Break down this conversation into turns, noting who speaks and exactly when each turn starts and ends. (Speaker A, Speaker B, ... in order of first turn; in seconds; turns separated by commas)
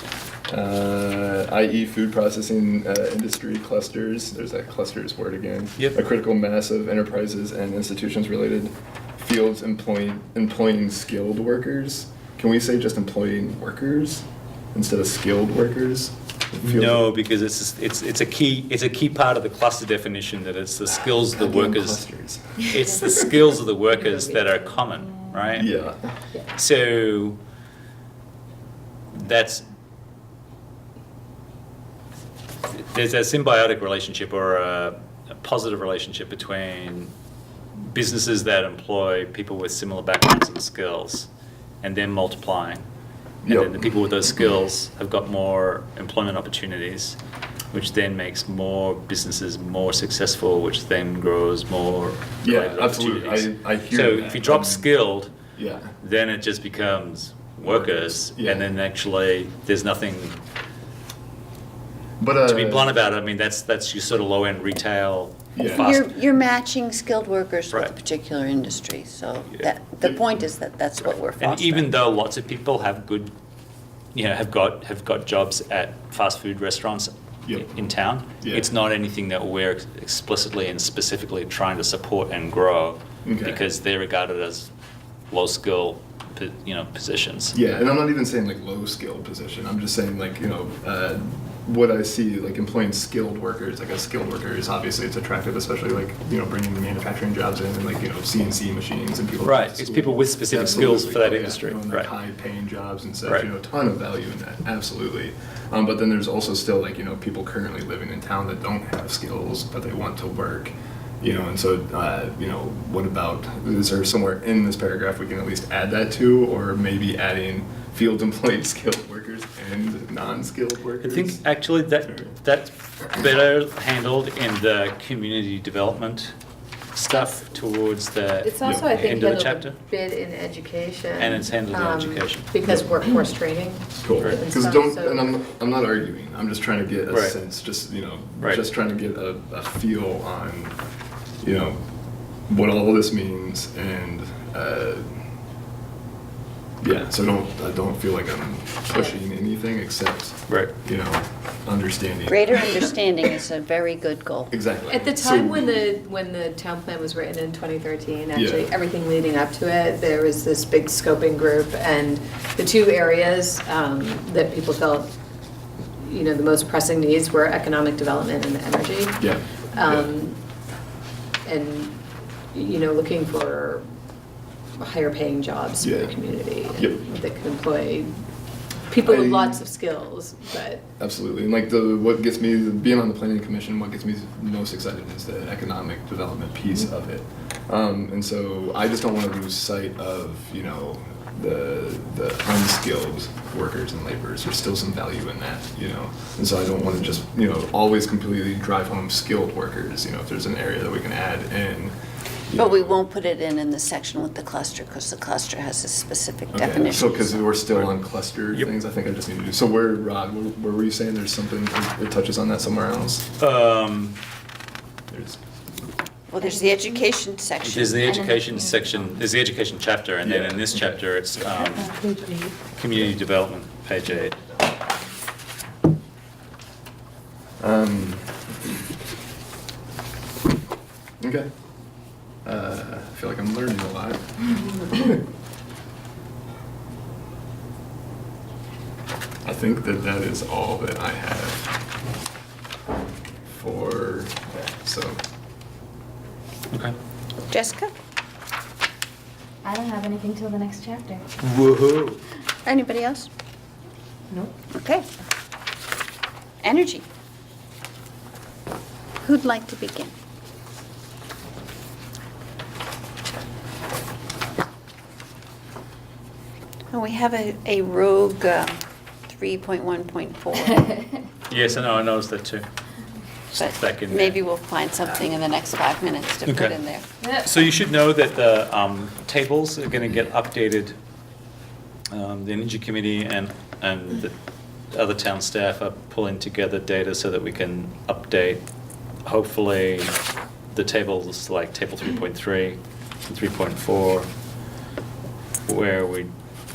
Speaker A: 0.5-17.1, Speaker B: 16.6-22.0, Speaker A: 21.1-23.2, Speaker B: 22.7-25.7, Speaker A: 25.5-26.1, Speaker B: 26.5-27.4, Speaker B: 29.1-29.6, Speaker B: 32.7-37.1, Speaker B: 37.8-41.3, Speaker B: 41.8-42.8, Speaker A: 43.4-44.5, Speaker B: 43.5-47.2, Speaker B: 47.7-55.3, Speaker A: 52.4-54.9, Speaker A: 55.5-55.9, Speaker B: 56.0-60.4, Speaker A: 57.6-58.7, Speaker A: 62.2-63.0, Speaker B: 62.4-66.0, Speaker A: 65.5-66.0, Speaker C: 65.7-71.9, Speaker B: 71.4-73.3, Speaker B: 74.1-84.7, Speaker A: 77.4-77.8, Speaker A: 78.4-78.7, Speaker A: 83.2-83.6, Speaker B: 85.3-87.5, Speaker A: 87.5-121.4, Speaker B: 99.4-102.1, Speaker B: 121.0-126.3, Speaker A: 122.0-122.4, Speaker B: 126.9-129.8, Speaker D: 128.4-135.3, Speaker A: 128.6-129.2, Speaker B: 131.2-132.6, Speaker A: 132.6-133.0, Speaker A: 134.0-140.8, Speaker B: 137.1-137.4, Speaker A: 141.4-141.8, Speaker A: 142.5-145.2, Speaker A: 146.8-152.6, Speaker C: 152.3-154.5, Speaker A: 154.5-155.8, Speaker D: 154.9-165.1, Speaker A: 158.3-158.7, Speaker D: 166.0-170.4, Speaker A: 169.2-170.1, Speaker D: 171.4-172.0, Speaker D: 172.5-173.8, Speaker D: 174.8-178.1, Speaker A: 175.8-176.2, Speaker D: 178.9-180.8, Speaker A: 179.0-179.6, Speaker A: 181.0-201.9, Speaker A: 202.5-203.0, Speaker C: 202.5-207.5, Speaker A: 206.5-213.2, Speaker B: 213.4-214.2, Speaker A: 215.1-215.4, Speaker C: 216.3-218.4, Speaker E: 216.4-217.0, Speaker B: 217.6-221.9, Speaker A: 220.2-220.9, Speaker E: 221.9-222.5, Speaker B: 222.7-224.4, Speaker A: 227.6-228.5, Speaker A: 231.2-231.5, Speaker A: 232.4-235.2, Speaker A: 239.4-241.8, Speaker A: 243.5-245.2, Speaker C: 247.5-247.9, Speaker E: 249.6-251.2, Speaker B: 251.4-252.2, Speaker C: 252.6-253.3, Speaker C: 254.7-255.1, Speaker C: 256.6-257.1, Speaker C: 259.2-260.1, Speaker C: 266.9-271.1, Speaker B: 271.5-272.6, Speaker B: 273.5-274.4, Speaker C: 273.5-277.1, Speaker B: 276.4-276.8, Speaker B: 277.3-280.9, Speaker B: 282.1-284.3, Speaker B: 284.9-288.6, Speaker B: 289.2-290.1, Speaker B: 290.7-294.3, Speaker B: 295.6-296.3